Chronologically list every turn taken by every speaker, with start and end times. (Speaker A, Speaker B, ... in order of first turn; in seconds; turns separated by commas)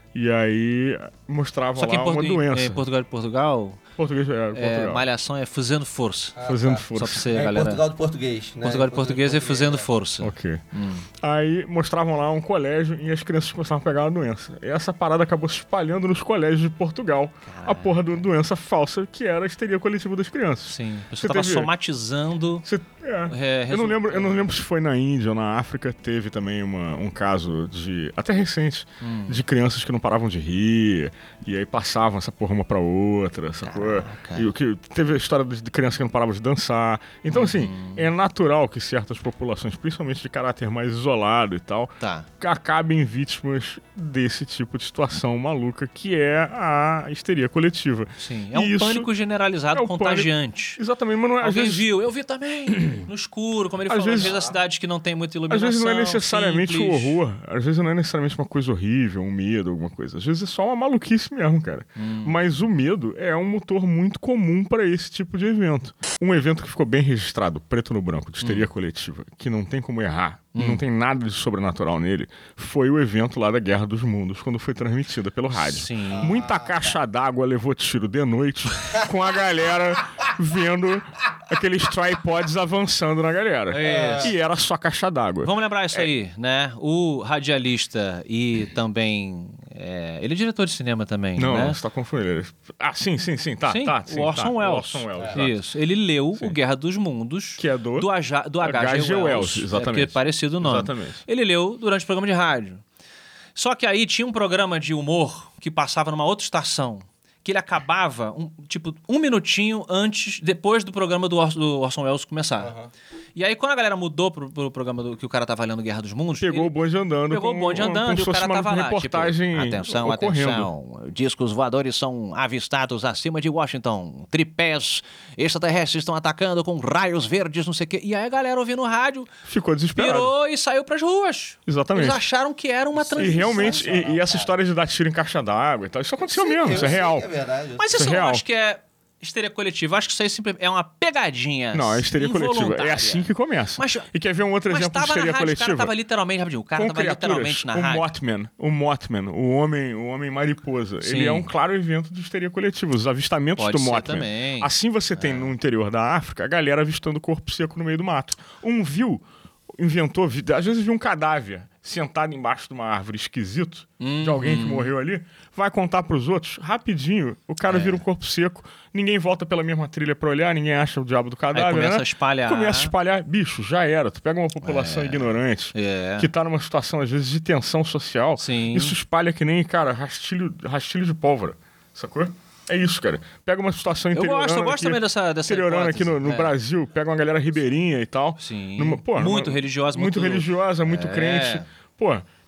Speaker A: 0.1-2.8, Speaker B: 1.8-3.8, Speaker A: 4.0-5.0, Speaker B: 4.5-6.4, Speaker C: 6.4-9.9, Speaker A: 6.5-7.3, Speaker B: 7.0-7.8, Speaker B: 8.6-11.1, Speaker A: 10.2-10.6, Speaker A: 11.2-21.7, Speaker B: 17.5-18.3, Speaker B: 20.7-22.7, Speaker A: 22.6-49.1, Speaker B: 23.3-24.5, Speaker B: 29.0-29.4, Speaker B: 33.6-34.5, Speaker B: 37.3-38.1, Speaker B: 42.0-42.3, Speaker B: 48.2-50.8, Speaker A: 49.7-51.9, Speaker B: 51.4-57.2, Speaker A: 52.7-53.1, Speaker A: 53.9-54.4, Speaker C: 54.2-54.5, Speaker A: 55.5-86.1, Speaker B: 62.0-62.4, Speaker B: 68.4-68.7, Speaker B: 70.5-70.8, Speaker B: 75.5-76.3, Speaker C: 76.1-76.9, Speaker B: 83.7-84.3, Speaker C: 83.8-84.3, Speaker B: 85.4-91.8, Speaker A: 91.4-95.6, Speaker B: 93.7-102.8, Speaker A: 97.6-98.1, Speaker A: 98.6-101.2, Speaker B: 103.6-112.7, Speaker C: 112.6-112.9, Speaker B: 113.4-116.8, Speaker A: 116.4-120.7, Speaker B: 117.3-129.3, Speaker A: 129.5-130.3, Speaker B: 129.9-134.5, Speaker A: 131.7-132.2, Speaker C: 132.9-134.3, Speaker A: 133.2-137.3, Speaker C: 136.2-137.9, Speaker B: 136.7-137.0, Speaker B: 137.8-144.1, Speaker A: 137.9-138.4, Speaker A: 141.7-145.9, Speaker B: 144.7-148.1, Speaker A: 146.8-192.3, Speaker B: 151.0-151.5, Speaker B: 153.6-155.5, Speaker B: 164.0-164.9, Speaker B: 167.7-168.0, Speaker B: 171.5-172.9, Speaker B: 174.6-176.3, Speaker B: 178.4-179.0, Speaker B: 184.1-186.5, Speaker B: 188.4-191.7